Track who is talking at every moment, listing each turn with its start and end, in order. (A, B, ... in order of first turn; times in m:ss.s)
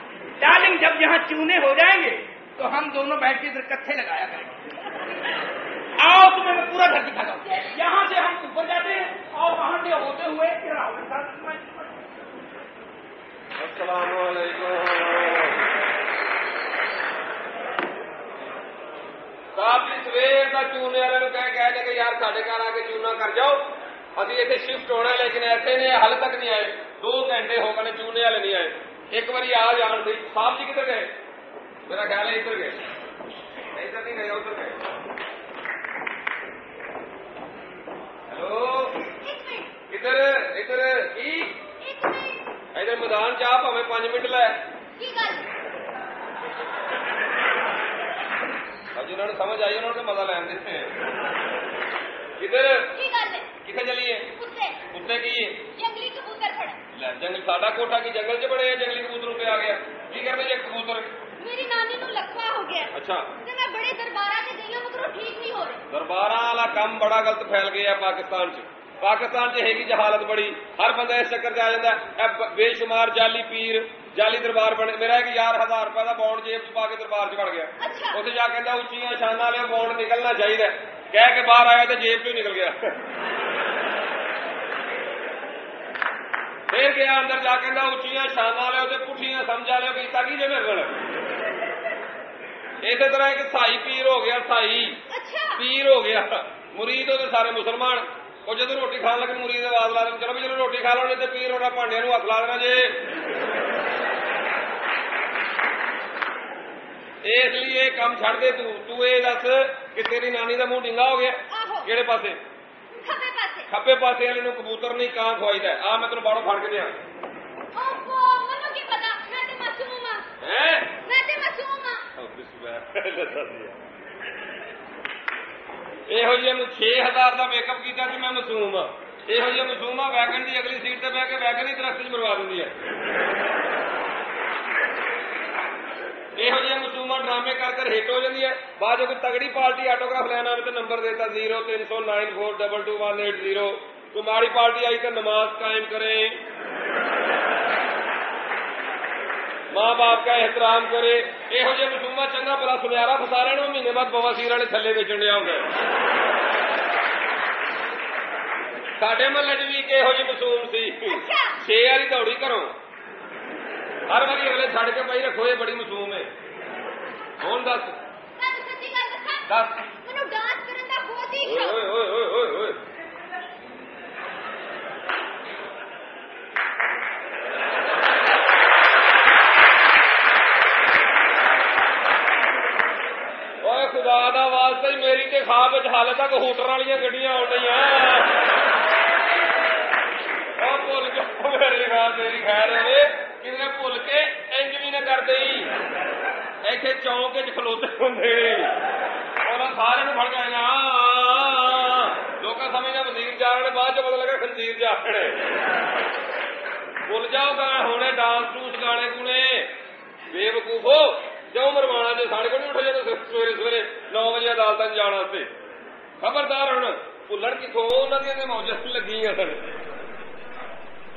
0:00.4-0:04.6 A
0:06.0-0:11.8 A
0:13.6-0:15.6 B
0:19.5-0:31.1 B
0:31.8-0:32.8 B
0:33.7-0:34.8 B
0:38.3-0:39.0 B
0:39.2-0:39.7 C
0:39.9-0:41.6 B
0:41.8-0:42.4 C
0:42.7-0:44.6 B
0:45.0-0:45.5 C
0:48.9-0:50.9 B
0:52.4-0:52.9 B
0:52.9-0:53.5 C
0:53.6-0:54.3 B
0:54.4-0:54.8 C
0:54.9-0:55.7 B
0:55.8-0:56.8 C
0:56.9-1:01.1 B
1:01.4-1:02.9 C
1:02.9-1:03.3 B
1:03.4-1:05.8 C
1:05.9-1:23.0 B
1:17.8-1:18.2 C
1:26.7-1:30.9 B
1:32.8-1:35.0 B
1:35.1-1:35.6 C
1:35.6-1:43.0 B
1:47.2-1:52.4 B
1:51.5-1:51.9 C
1:53.0-1:53.7 C
1:53.7-1:57.0 B
1:57.7-2:00.2 C
2:00.4-2:00.9 B
2:01.0-2:02.0 C
2:02.1-2:03.8 B
2:06.1-2:12.7 B
2:16.4-2:26.4 B
2:29.7-2:35.7 B
2:39.0-2:42.7 B
2:41.1-2:41.6 C
2:44.1-2:46.3 B
2:47.4-2:48.0 B
2:48.4-2:49.4 C
2:49.5-2:49.8 B
2:50.0-2:51.8 C
2:51.4-2:52.8 B
3:03.6-3:08.4 B
3:10.6-3:15.7 B
3:16.6-3:18.7 B
3:19.4-3:25.4 B
3:27.0-3:29.7 B
3:30.3-3:35.5 B
3:36.2-3:39.6 B